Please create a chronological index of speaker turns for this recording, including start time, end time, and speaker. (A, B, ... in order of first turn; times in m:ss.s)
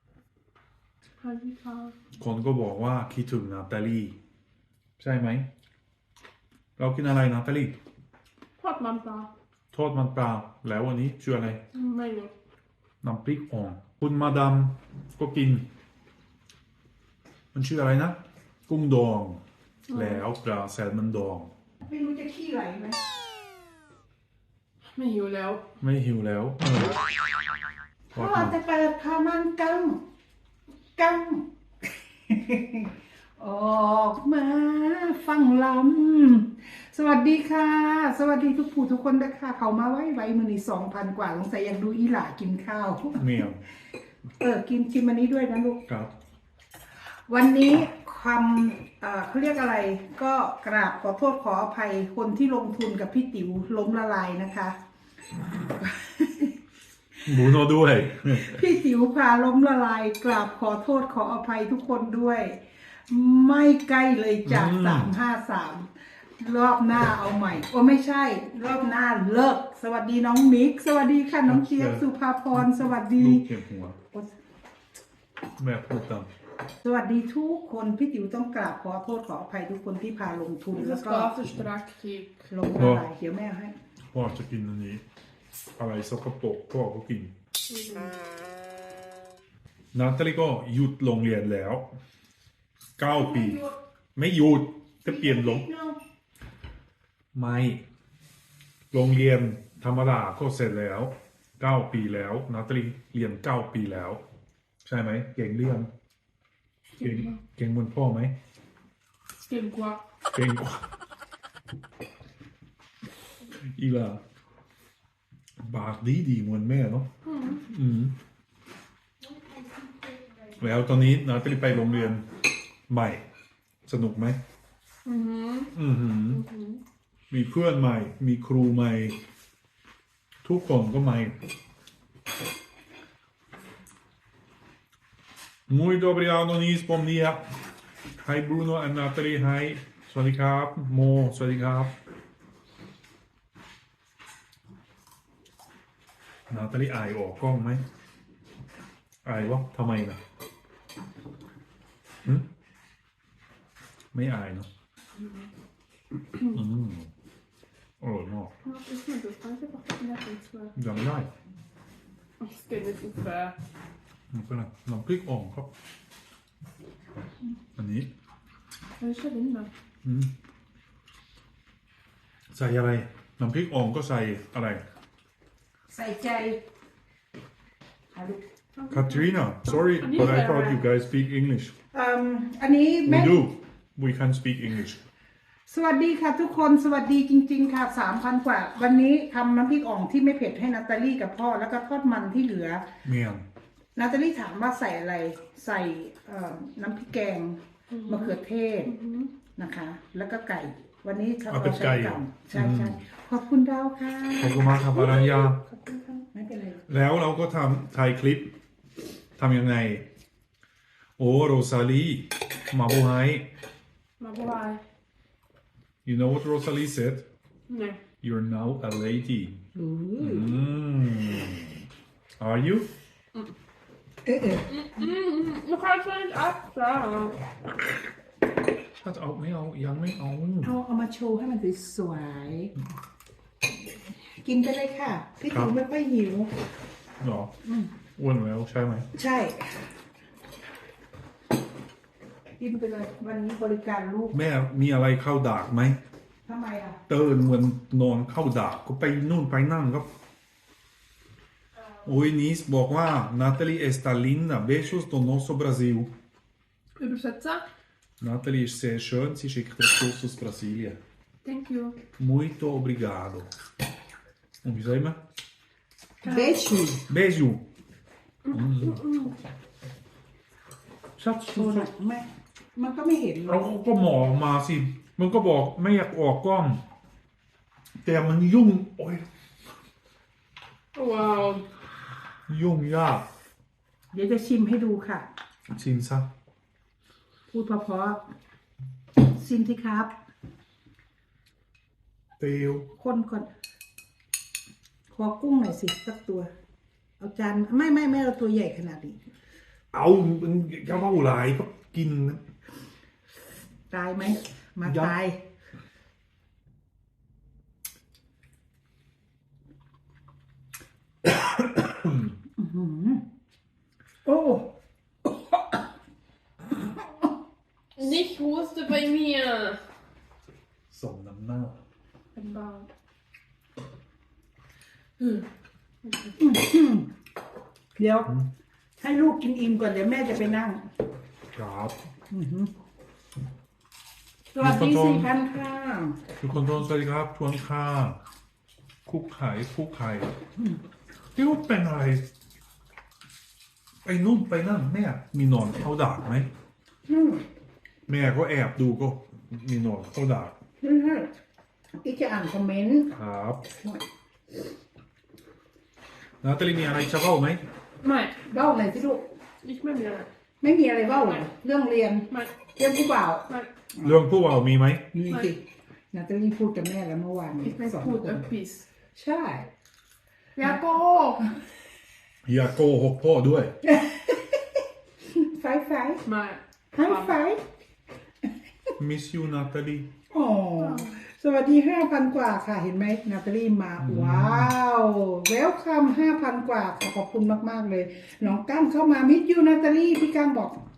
0:01.2-0:01.9 A
0:02.2-0:04.1 B
0:05.0-0:05.4 B
0:06.8-0:07.8 B
0:08.6-0:09.3 A
0:09.7-0:11.6 B
0:11.7-0:12.3 A
0:13.0-0:15.6 B
0:17.5-0:19.4 B
0:19.9-0:20.2 A
0:19.9-0:21.5 B
0:21.8-0:23.0 C
0:24.9-0:25.6 A
0:25.8-0:27.0 B
0:28.1-0:30.0 C
0:28.1-0:28.5 B
0:31.0-0:31.5 C
0:32.3-0:43.3 C
0:43.2-0:43.6 B
0:44.4-0:45.8 C
0:47.3-0:54.8 C
0:55.4-0:56.6 C
0:57.2-0:58.7 B
0:57.3-0:57.6 C
0:58.3-1:13.4 C
1:04.4-1:05.1 B
1:11.4-1:14.0 B
1:15.6-1:16.3 B
1:16.8-1:21.4 C
1:20.7-1:22.3 A
1:22.5-1:23.7 C
1:22.7-1:23.0 B
1:24.1-1:25.0 B
1:25.8-1:27.3 B
1:27.7-1:28.1 A
1:29.9-1:31.9 B
1:33.0-1:33.6 B
1:33.1-1:33.7 C
1:34.1-1:35.6 B
1:35.0-1:36.0 C
1:37.3-1:37.8 B
1:38.9-1:44.2 B
1:44.8-1:45.9 B
1:47.0-1:48.3 B
1:47.0-1:47.3 A
1:49.4-1:50.0 A
1:50.3-1:50.8 B
1:53.6-1:54.2 B
1:55.6-1:57.1 B
1:57.2-1:57.6 A
1:57.6-1:58.1 B
2:00.6-2:02.2 B
2:02.9-2:03.2 B
2:03.8-2:04.4 B
2:05.0-2:05.7 A
2:05.7-2:06.4 B
2:06.2-2:06.8 A
2:07.3-2:09.2 B
2:10.4-2:11.4 B
2:15.7-2:17.4 B
2:18.2-2:21.9 B
2:26.5-2:27.8 B
2:29.2-2:30.2 B
2:34.1-2:34.7 B
2:36.5-2:37.1 B
2:38.0-2:38.5 B
2:38.6-2:40.7 A
2:40.7-2:41.3 B
2:42.4-2:43.6 A
2:44.3-2:45.7 B
2:47.8-2:48.1 B
2:49.0-2:49.7 A
2:50.0-2:50.3 B
2:52.5-2:54.8 B
2:55.9-2:56.6 C
2:58.1-2:58.4 C
2:58.8-3:00.8 A
2:58.9-3:01.7 B
3:01.9-3:03.4 C
3:03.0-3:05.0 B
3:05.7-3:12.8 C
3:13.0-3:13.4 B
3:14.0-3:18.9 C
3:17.9-3:19.3 A
3:19.6-3:26.8 C
3:21.5-3:23.0 B
3:24.4-3:25.6 B
3:26.9-3:28.5 B
3:29.4-3:30.0 B
3:31.2-3:33.4 B
3:34.2-3:34.8 A
3:36.0-3:37.2 B
3:37.7-3:38.0 A
3:38.2-3:39.6 B
3:39.7-3:40.7 C
3:40.2-3:41.7 B
3:42.4-3:42.9 B
3:44.2-3:44.7 C
3:44.7-3:47.4 A
3:49.0-3:50.8 B
3:50.6-3:52.7 C
3:54.3-3:56.5 C
3:57.2-3:57.5 B
3:57.6-3:57.9 C
3:58.1-3:59.1 B
3:59.2-3:59.9 C
4:02.6-4:04.3 C
4:04.3-4:06.0 B
4:06.4-4:07.0 C
4:07.1-4:10.1 B
4:12.0-4:16.1 B
4:17.0-4:17.6 A
4:18.2-4:21.0 B
4:21.4-4:22.0 A
4:22.2-4:23.5 B
4:24.6-4:25.2 B
4:26.2-4:26.6 A
4:26.2-4:27.0 C
4:27.1-4:27.6 B
4:28.4-4:29.3 A
4:28.5-4:29.0 B
4:31.2-4:31.9 B
4:31.6-4:33.6 C
4:33.5-4:36.8 B
4:38.0-4:39.2 B
4:40.9-4:41.6 A
4:42.5-4:43.2 B
4:44.1-4:45.2 C
4:45.7-4:46.3 B
4:47.5-4:48.2 C
4:49.2-4:50.1 C
4:52.4-4:52.9 B
4:53.0-4:53.5 C
4:55.1-4:56.5 C
4:57.2-4:59.2 C
4:59.9-5:02.4 B
5:03.9-5:05.4 C
5:04.8-5:05.1 B
5:11.2-5:12.3 B
5:12.6-5:13.2 C
5:14.2-5:14.7 C
5:15.2-5:15.8 C
5:16.8-5:17.1 C
5:18.0-5:19.8 A
5:20.9-5:21.8 B
5:22.4-5:22.9 A
5:25.2-5:25.5 A
5:26.0-5:26.4 A
5:26.4-5:27.1 C
5:28.0-5:28.3 C
5:29.0-5:30.8 C
5:31.5-5:32.0 B
5:32.3-5:32.7 C
5:34.5-5:36.2 C
5:34.6-5:35.3 B
5:36.4-5:38.2 B
5:39.0-5:40.3 B
5:41.3-5:42.2 B
5:44.0-5:46.5 B
5:47.1-5:47.4 C
5:48.1-5:50.5 B
5:50.8-5:51.3 C
5:52.0-5:53.1 C
5:53.1-5:53.6 B
5:56.4-5:57.6 B
5:58.0-5:58.3 A
5:58.4-5:59.2 C
5:59.6-6:00.3 A
6:00.6-6:03.5 C
6:04.0-6:05.1 B
6:05.1-6:08.4 C
6:07.6-6:08.8 A
6:09.1-6:09.7 C
6:10.6-6:11.4 A
6:12.4-6:13.7 B
6:13.8-6:16.2 C
6:16.2-6:17.4 A
6:16.9-6:17.6 C
6:19.0-6:20.1 B
6:20.3-6:30.8 C
6:20.8-6:21.1 A
6:24.0-6:24.7 B